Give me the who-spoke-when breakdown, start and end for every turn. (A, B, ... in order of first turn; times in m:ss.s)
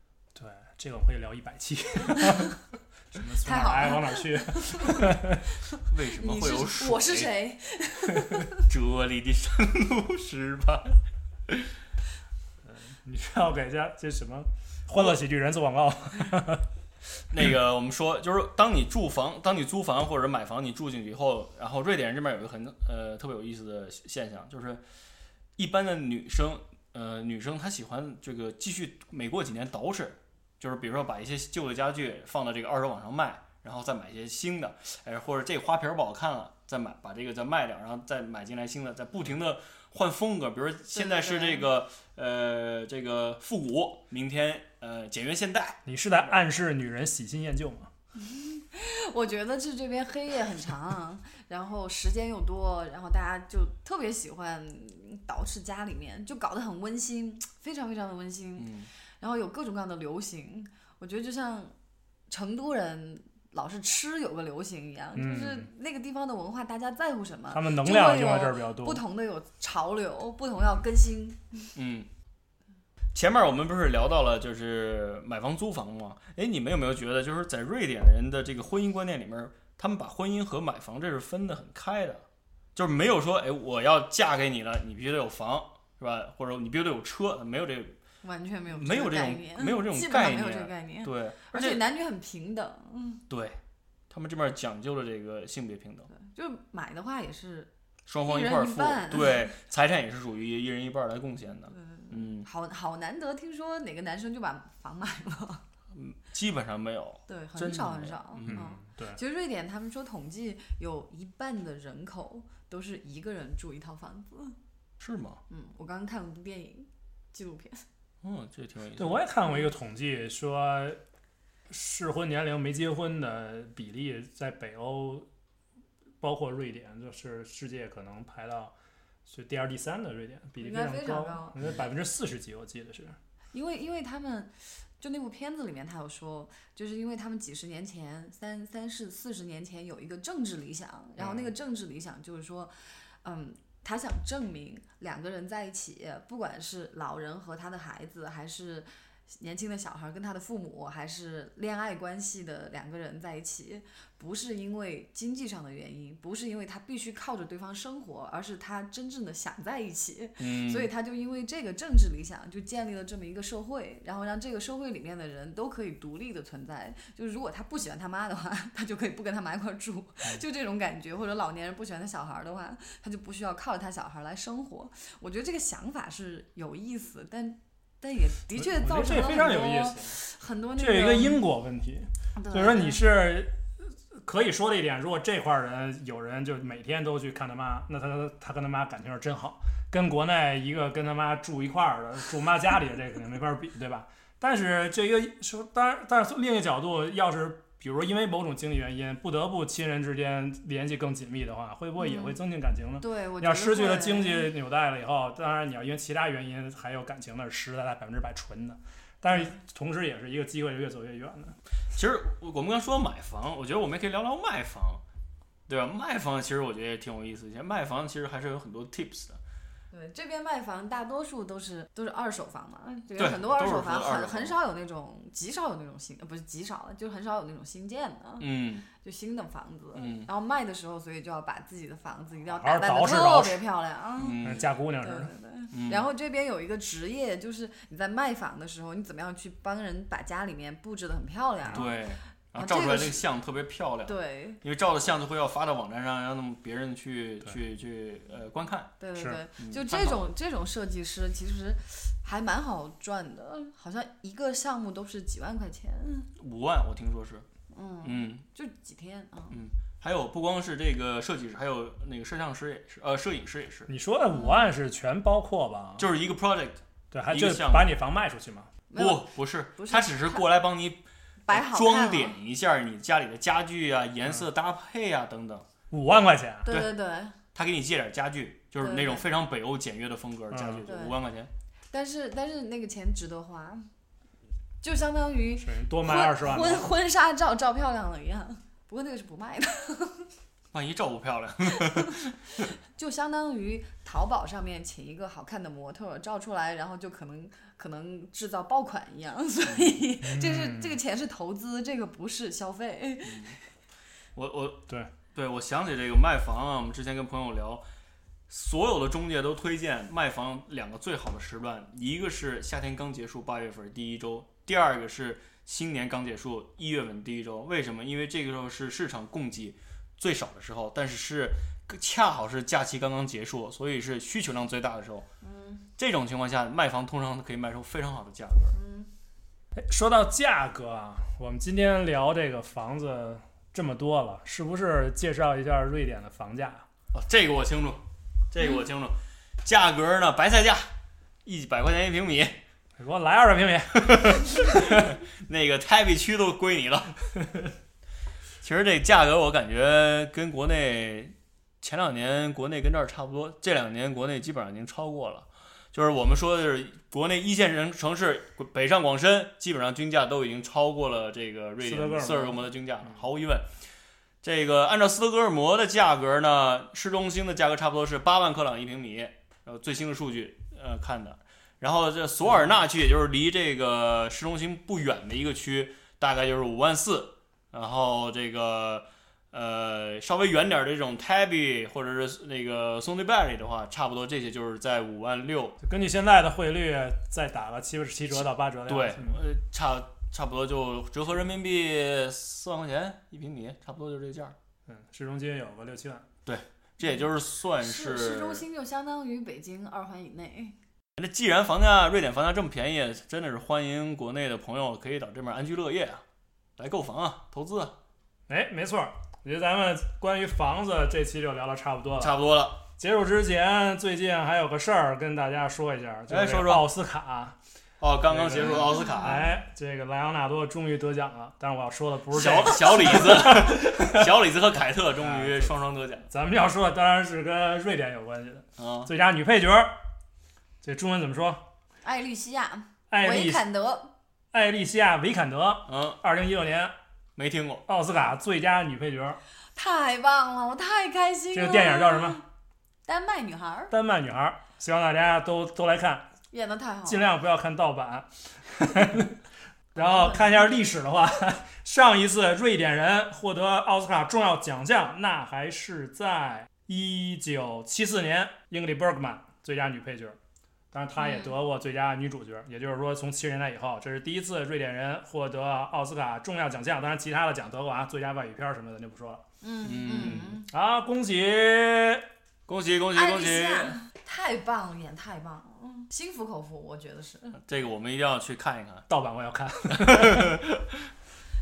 0:00.3-0:02.6 A
0:03.1-0:05.4 A
0:03.4-0:08.7 B
0:05.8-0:07.4 C
0:08.6-0:11.7 C
0:12.6-0:16.6 A
0:17.3-0:24.8 C
0:25.6-0:46.3 C
0:40.9-0:41.7 B
0:45.8-0:47.9 A
0:48.1-1:01.7 B
0:58.6-0:58.9 C
1:02.3-1:11.7 B
1:05.2-1:05.7 A
1:07.5-1:09.0 A
1:11.7-1:12.1 C
1:13.1-1:28.0 C
1:28.2-1:33.2 B
1:28.7-1:31.8 C
1:33.3-1:36.1 C
1:36.1-1:37.7 B
1:38.0-1:42.4 C
1:38.2-1:39.5 B
1:41.7-1:45.6 B
1:45.9-1:48.6 C
1:47.3-1:54.6 B
1:48.4-1:49.2 A
1:55.0-1:55.4 C
1:55.5-1:57.8 B
1:58.2-1:59.2 C
1:59.0-2:01.0 A
2:01.7-2:05.2 A
2:06.2-2:08.7 A
2:09.3-2:13.2 A
2:10.6-2:11.6 B
2:13.5-3:01.4 B
2:40.4-2:40.9 C
2:58.5-3:00.1 A
3:00.8-3:03.6 A
3:02.4-3:03.0 B
3:04.1-3:31.6 A
3:22.0-3:22.4 B
3:23.0-3:24.5 B
3:29.3-3:29.6 B
3:31.9-3:35.0 C
3:35.7-3:39.4 C
3:39.9-3:54.4 B
3:43.2-3:44.6 C
3:48.4-3:48.8 C
3:49.9-3:50.3 C
3:52.5-3:53.6 A
3:54.2-3:54.7 C
3:54.4-3:55.3 A
3:55.0-4:02.0 B
3:55.7-3:56.1 C
4:01.7-4:08.9 C
4:02.5-4:03.2 B
4:04.0-4:04.6 B
4:09.0-4:16.3 B
4:09.6-4:10.2 C
4:16.4-4:17.4 C
4:17.7-4:19.6 B
4:18.0-4:18.4 C
4:19.5-4:23.9 C
4:23.9-4:26.1 A
4:24.3-4:24.8 B
4:26.0-4:27.9 C
4:27.1-4:28.7 A
4:28.9-4:30.5 B
4:29.0-4:35.7 C
4:31.4-4:32.4 B
4:35.9-4:36.7 A
4:36.6-4:37.4 B
4:36.7-4:36.9 C
4:37.5-4:41.5 C
4:38.8-4:39.2 B
4:40.5-4:40.9 A
4:40.8-4:41.2 B
4:41.9-4:43.9 B
4:44.8-4:50.3 B
4:45.6-4:46.9 A
4:50.7-4:52.3 C
4:51.7-4:52.3 B
4:52.8-5:03.6 B
4:59.6-5:00.0 C
5:00.2-5:01.0 A
5:03.2-5:03.6 C
5:04.3-5:07.8 C
5:08.5-5:25.3 C
5:25.4-5:25.9 B
5:26.0-5:28.8 C
5:28.7-5:29.1 B
5:29.7-5:36.8 A
5:37.1-5:40.9 C
5:41.4-5:42.6 C
5:43.0-5:45.1 A
5:44.1-5:47.1 C
5:47.4-5:47.7 A
5:48.6-6:03.7 C
6:01.8-6:03.2 A
6:04.4-6:25.8 C
6:12.5-6:12.7 A
6:25.8-6:29.4 A
6:28.3-6:34.6 C
6:34.9-6:36.3 A
6:36.4-6:38.6 C
6:37.0-6:40.8 B
6:41.2-6:46.2 C
6:46.8-6:48.0 C
6:48.5-6:52.4 A
6:52.2-6:52.8 C
6:53.0-6:57.6 A
6:56.3-6:56.9 C
6:58.0-6:59.4 C
6:58.3-7:04.3 A
6:58.9-6:59.5 B
7:02.3-7:06.3 C
7:05.2-7:05.7 A
7:06.3-7:10.0 A
7:08.8-7:09.1 C
7:10.8-7:11.6 A
7:12.0-7:14.1 B
7:13.1-7:13.6 A
7:14.5-7:16.9 A
7:15.9-7:16.2 C
7:17.4-7:17.8 C
7:17.9-7:19.4 A
7:19.7-7:22.4 B
7:21.5-7:22.4 A
7:23.0-7:23.9 B
7:23.9-7:26.3 A
7:26.5-7:27.3 B
7:27.0-7:29.4 A
7:30.0-7:30.7 B
7:30.0-7:40.4 A
7:40.9-7:49.4 A
7:41.2-7:41.5 B
7:49.6-7:50.7 B
7:49.8-7:50.6 C
7:50.3-7:52.2 A
7:52.7-7:54.0 C
7:53.1-7:57.6 B
7:57.6-7:59.0 C
7:59.1-8:00.6 A
7:59.9-8:01.1 C